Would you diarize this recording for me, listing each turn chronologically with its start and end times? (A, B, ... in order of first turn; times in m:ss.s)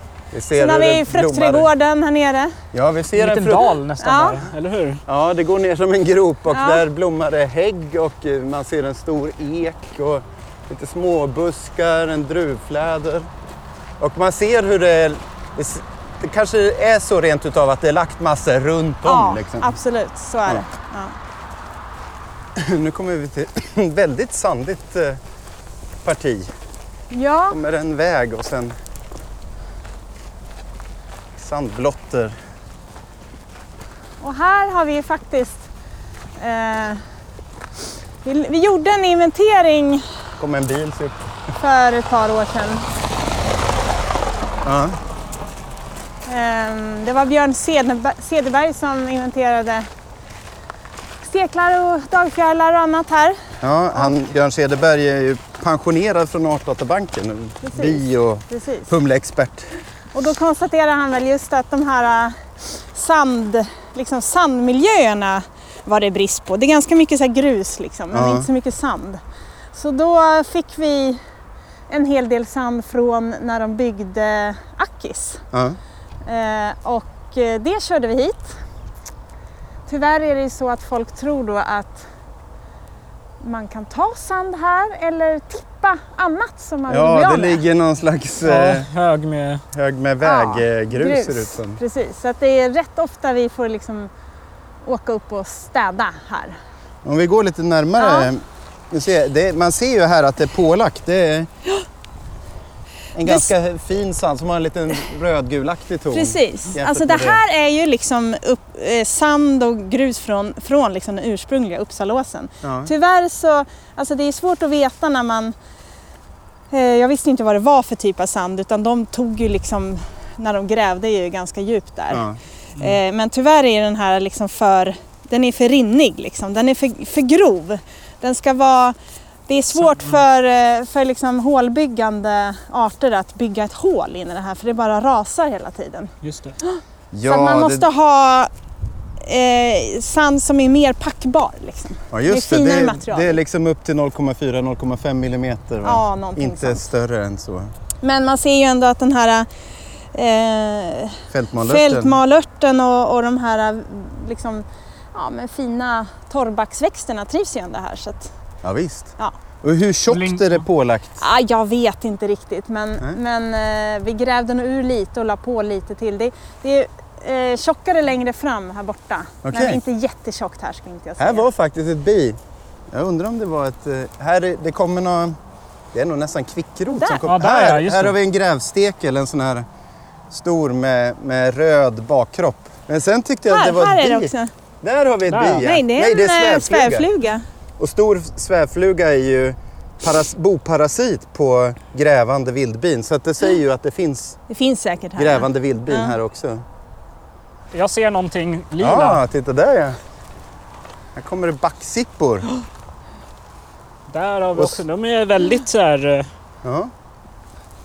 0:00.3-0:01.7 A
0:00.6-0:02.6 B
0:02.7-0:03.7 A
0:03.2-0:05.0 C
0:04.0-0:04.4 B
0:05.1-0:13.3 A
0:06.5-0:06.8 B
0:14.0-0:19.8 A
0:19.0-0:21.1 B
0:22.6-0:25.2 A
0:26.0-0:26.5 A
0:27.1-0:27.6 B
0:27.5-0:28.8 A
0:31.4-0:32.4 A
0:34.2-0:35.7 B
0:36.4-0:37.0 B
0:38.2-0:40.1 B
0:40.4-0:41.2 A
0:41.6-0:42.9 B
0:44.6-0:45.0 A
0:46.3-0:49.9 B
0:51.2-0:53.4 B
0:53.6-0:59.7 A
0:57.6-0:58.9 B
1:00.1-1:09.2 B
1:08.1-1:08.5 A
1:09.7-1:11.2 B
1:11.9-1:15.4 B
1:15.5-1:15.8 A
1:16.2-1:18.6 B
1:19.9-1:22.1 B
1:23.4-1:27.6 B
1:26.9-1:28.9 A
1:28.4-1:29.6 C
1:29.7-1:31.8 A
1:30.2-1:34.1 B
1:34.8-1:36.6 B
1:37.0-1:41.5 A
1:38.0-1:38.3 B
1:43.2-1:47.4 A
1:46.1-1:55.6 B
1:52.6-1:52.9 A
1:56.7-2:02.2 B
2:02.1-2:02.4 A
2:02.8-2:09.0 B
2:09.5-2:16.1 B
2:09.8-2:10.2 C
2:16.2-2:16.6 C
2:16.6-2:18.5 B
2:17.1-2:17.9 A
2:19.2-2:23.4 B
2:22.1-2:27.7 A
2:25.8-2:26.8 B
2:28.0-2:29.5 B
2:30.1-2:38.3 B
2:31.3-2:32.2 A
2:38.6-2:41.2 A
2:40.1-2:40.6 C
2:41.2-2:51.5 B
2:49.4-2:49.8 A
2:51.2-2:52.4 A
2:52.9-2:55.4 A
2:55.9-2:59.7 A
2:56.9-2:57.2 B
2:57.3-2:58.2 C
3:00.3-3:04.3 A
3:03.5-3:04.5 B
3:04.8-3:07.1 A
3:05.3-3:05.7 C
3:05.6-3:07.4 B
3:07.8-3:14.4 A
3:14.5-3:16.2 B
3:15.2-3:16.6 A
3:17.7-3:19.2 C
3:18.8-3:20.0 A
3:21.2-3:22.5 A
3:24.1-3:26.3 C
3:26.6-3:26.9 A